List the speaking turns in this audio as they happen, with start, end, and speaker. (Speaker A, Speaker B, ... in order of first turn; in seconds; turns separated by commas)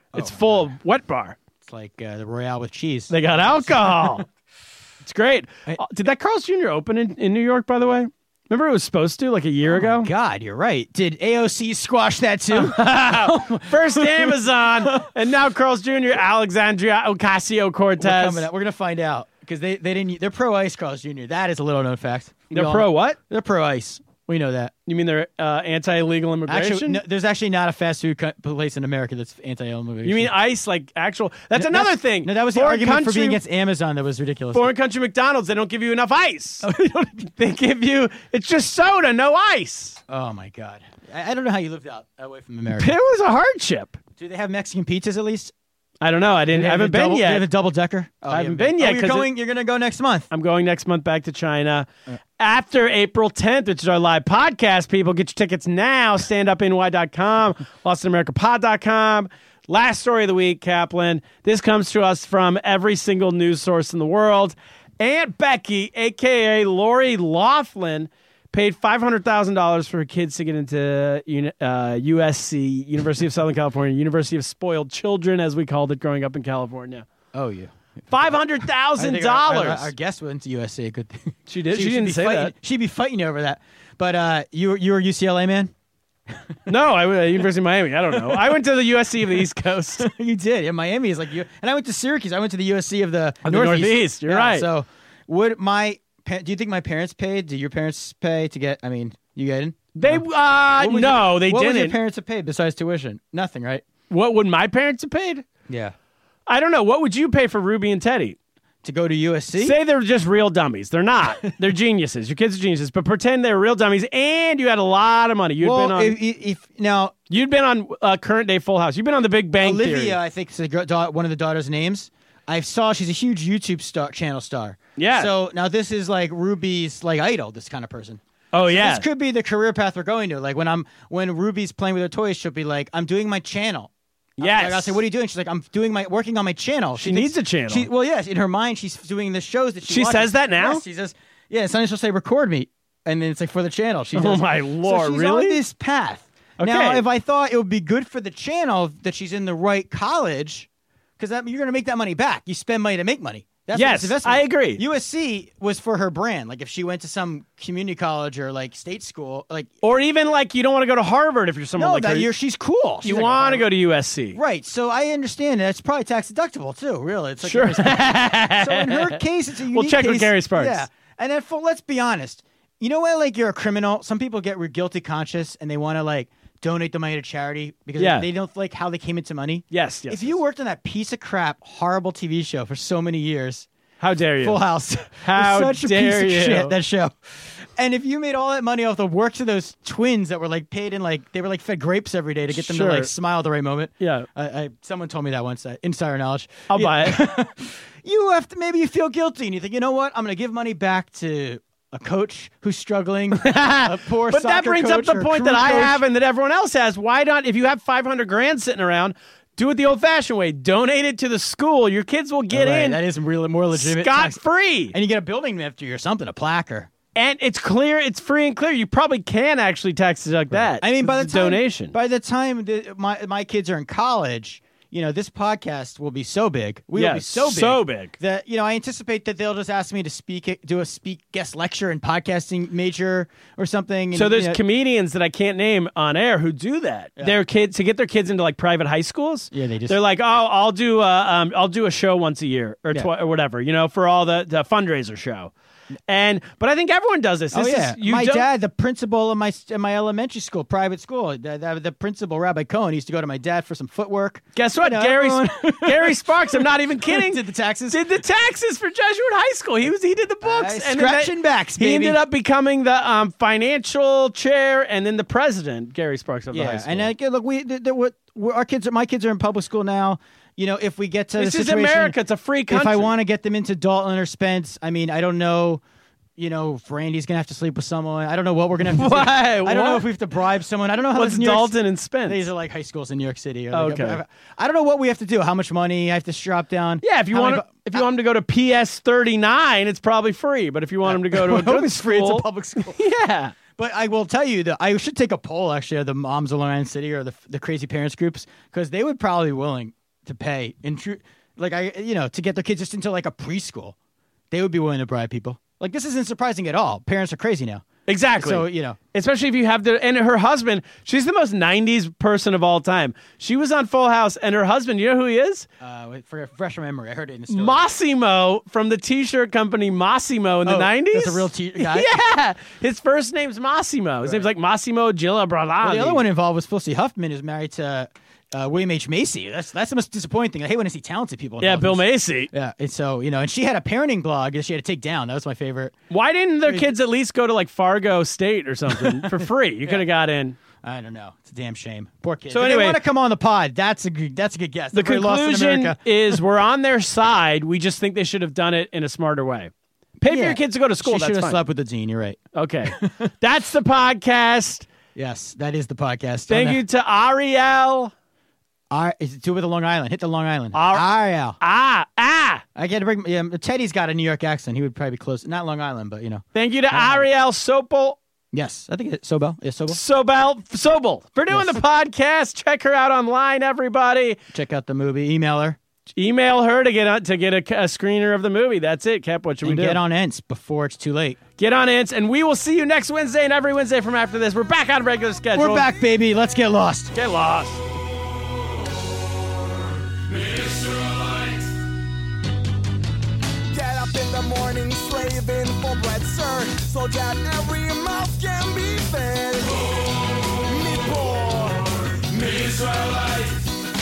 Speaker A: 0.1-0.7, Speaker B: 0.1-1.4, Speaker A: 1.6-4.2, Speaker B: 3.1-4.3, Speaker B: 5.0-10.1, Speaker A: 9.7-15.1, Speaker B: 12.5-18.5, Speaker A: 18.0-24.7, Speaker B: 22.5-23.2, Speaker B: 24.9-27.0, Speaker A: 26.5-30.3, Speaker B: 30.0-33.4, Speaker A: 31.6-34.7, Speaker B: 34.5-36.7, Speaker A: 36.6-37.3, Speaker B: 37.3-40.0, Speaker A: 40.1-42.9, Speaker B: 42.8-44.0, Speaker A: 44.2-45.5, Speaker B: 46.0-47.5, Speaker A: 46.5-50.3, Speaker B: 48.3-49.3, Speaker B: 50.3-51.9, Speaker B: 52.4-77.1, Speaker A: 77.3-77.7, Speaker B: 78.1-79.9, Speaker A: 79.0-85.7, Speaker B: 81.5-82.5, Speaker B: 86.7-90.1, Speaker A: 90.0-100.2, Speaker B: 93.5-94.7, Speaker B: 100.0-102.0, Speaker A: 100.8-103.9, Speaker B: 104.1-105.5, Speaker A: 105.7-105.9, Speaker B: 106.5-108.4, Speaker A: 108.8-109.8, Speaker B: 109.6-116.2, Speaker A: 115.6-117.2, Speaker B: 117.3-120.2, Speaker A: 119.6-159.7, Speaker B: 125.0-125.3, Speaker B: 128.5-129.1, Speaker B: 134.4-135.0, Speaker B: 137.0-137.9, Speaker B: 139.9-140.8, Speaker B: 144.1-145.6, Speaker B: 146.6-147.0, Speaker B: 153.7-154.8, Speaker B: 159.8-162.3, Speaker A: 161.8-163.7, Speaker B: 163.0-164.4, Speaker A: 164.3-183.7, Speaker B: 167.4-170.8, Speaker B: 178.0-178.3, Speaker B: 179.7-180.4, Speaker B: 184.0-184.6, Speaker A: 184.4-206.0, Speaker B: 185.2-186.8, Speaker B: 192.5-193.1, Speaker B: 194.0-194.3, Speaker B: 196.7-197.2, Speaker B: 203.3-213.0, Speaker A: 212.5-214.4, Speaker B: 213.7-214.9, Speaker A: 214.9-216.9, Speaker B: 217.2-221.9, Speaker A: 220.5-234.6, Speaker B: 226.9-228.2, Speaker B: 234.1-245.5, Speaker A: 239.5-240.0, Speaker B: 246.1-248.5, Speaker A: 247.5-258.0, Speaker B: 254.6-267.1, Speaker A: 260.4-262.2, Speaker A: 266.5-272.1, Speaker B: 271.4-273.1, Speaker A: 272.7-275.8, Speaker A: 276.4-281.8, Speaker B: 278.9-280.1, Speaker B: 281.1-282.5, Speaker A: 282.3-288.1, Speaker B: 283.7-284.2, Speaker B: 287.0-293.5, Speaker A: 291.1-293.0, Speaker A: 293.8-303.9, Speaker A: 304.5-307.9, Speaker B: 308.1-315.7, Speaker A: 308.4-309.0, Speaker A: 315.8-317.8, Speaker B: 317.5-326.2, Speaker A: 320.7-322.1, Speaker A: 325.8-335.9, Speaker B: 331.6-332.5, Speaker B: 336.1-340.6, Speaker A: 338.9-340.0, Speaker A: 340.8-346.4, Speaker B: 342.5-343.0, Speaker B: 344.9-349.7, Speaker A: 350.2-353.3, Speaker B: 350.2-351.6, Speaker B: 352.6-354.9, Speaker A: 355.1-356.8, Speaker B: 356.5-358.1, Speaker A: 358.9-361.6, Speaker B: 360.7-361.1, Speaker B: 361.6-362.6, Speaker A: 362.8-367.3, Speaker B: 366.6-368.2, Speaker A: 368.5-370.0, Speaker B: 369.9-374.4, Speaker A: 371.5-371.8, Speaker A: 374.5-375.8, Speaker B: 376.2-380.0, Speaker A: 379.6-381.4, Speaker B: 381.6-385.9, Speaker A: 385.6-387.1, Speaker B: 387.1-387.8, Speaker C: 393.7-403.6